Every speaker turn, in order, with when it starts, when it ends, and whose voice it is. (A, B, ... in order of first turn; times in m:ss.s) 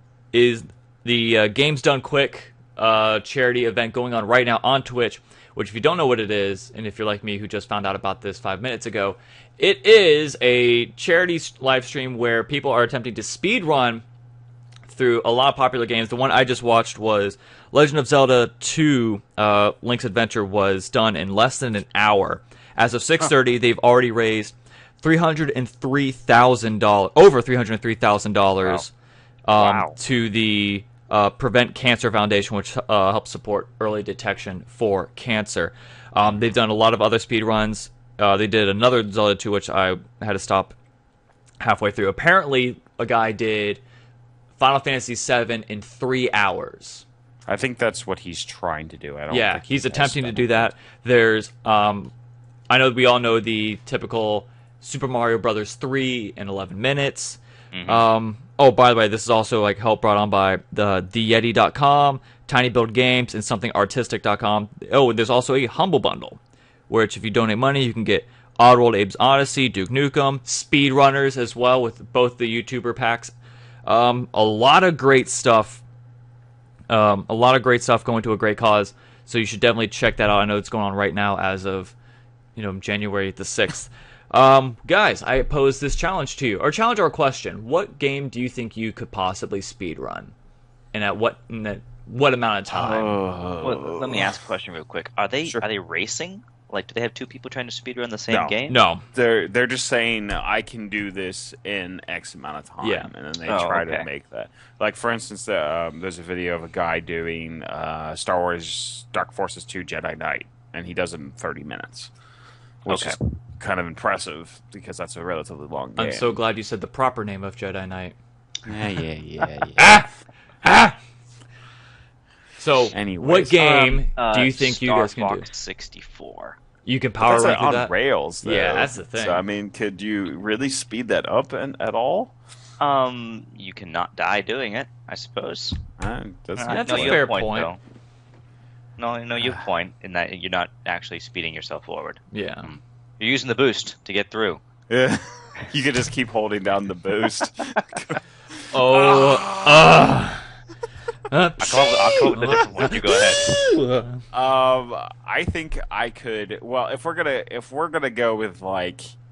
0:00.3-0:14.0 A
0:14.9-0:28.9 A
0:29.5-0:40.7 A
0:29.6-0:30.0 B
0:41.6-0:43.8 A
0:44.6-0:47.0 A
0:47.4-0:50.7 C
0:49.3-0:52.1 A
0:52.7-1:13.3 A
0:57.7-0:58.0 B
1:13.8-1:15.8 A
1:16.9-1:21.9 A
1:22.6-1:30.3 A
1:30.9-1:33.2 A
1:32.7-1:34.4 C
1:33.6-1:38.8 B
1:38.3-1:38.5 C
1:38.7-1:39.0 A
1:39.1-1:52.1 C
1:42.8-1:43.1 A
1:43.5-1:44.0 B
1:52.8-1:56.4 C
1:52.9-1:53.2 B
1:56.0-1:58.2 A
1:58.6-2:00.1 C
1:59.7-2:00.1 A
2:00.6-2:01.0 A
2:02.6-2:05.4 A
2:02.9-2:04.0 C
2:04.2-2:06.6 B
2:06.8-2:09.4 A
2:07.2-2:12.3 C
2:12.8-2:15.8 B
2:16.0-2:17.3 C
2:16.6-2:17.8 B
2:16.7-2:17.7 A
2:19.0-2:24.6 B
2:22.3-2:22.7 A
2:24.9-2:28.2 C
2:28.7-2:30.5 A
2:28.8-2:30.1 C
2:31.3-2:34.2 A
2:31.6-2:33.6 B
2:32.1-2:32.8 C
2:34.3-2:39.1 C